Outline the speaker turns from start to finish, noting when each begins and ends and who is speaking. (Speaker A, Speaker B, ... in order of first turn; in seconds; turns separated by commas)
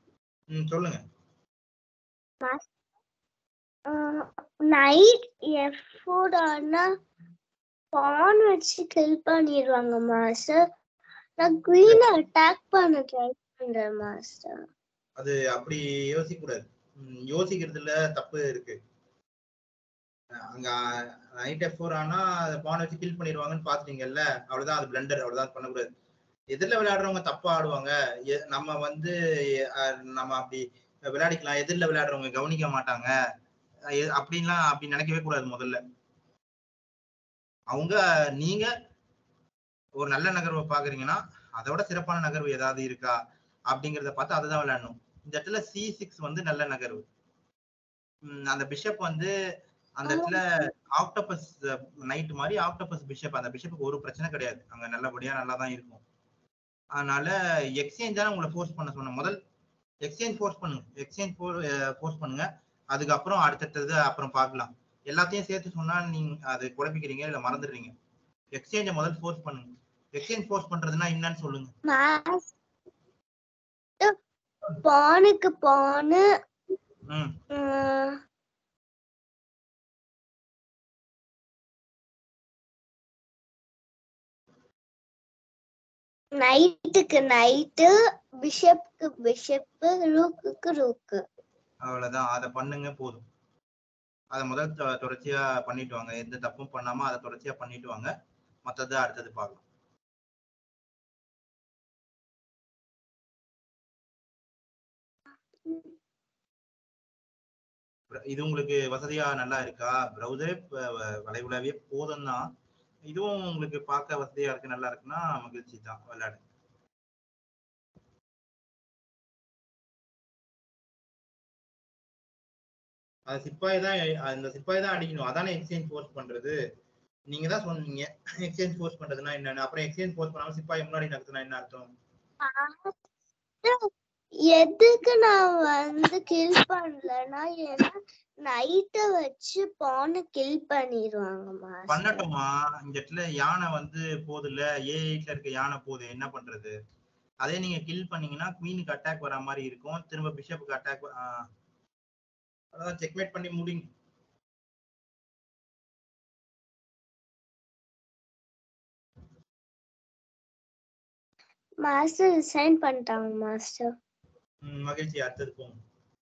Speaker A: 0.5-1.0, Speaker B: 2.4-2.7, Speaker B: 3.9-6.9, Speaker B: 7.9-10.6, Speaker B: 11.4-14.6, Speaker A: 15.2-18.8, Speaker A: 20.4-25.9, Speaker A: 26.5-33.1, Speaker A: 33.9-35.8, Speaker A: 37.7-38.7, Speaker A: 40.0-43.2, Speaker A: 43.7-47.0, Speaker A: 48.2-49.3, Speaker A: 50.0-56.0, Speaker B: 50.0-50.4, Speaker A: 57.0-59.4, Speaker A: 60.0-67.9, Speaker A: 68.5-71.7, Speaker B: 71.8-72.4, Speaker B: 74.7-76.2, Speaker A: 77.1-77.3, Speaker B: 77.5-78.2, Speaker B: 86.3-91.2, Speaker A: 91.8-93.2, Speaker A: 94.3-98.1, Speaker A: 98.6-99.6, Speaker B: 105.7-106.0, Speaker A: 108.1-112.5, Speaker A: 113.1-116.4, Speaker A: 123.3-126.6, Speaker A: 127.3-131.9, Speaker B: 132.4-132.9, Speaker B: 133.6-133.9, Speaker B: 134.4-142.2, Speaker A: 141.9-146.8, Speaker A: 147.4-151.5, Speaker A: 152.7-153.9, Speaker B: 161.8-163.9, Speaker A: 164.6-165.8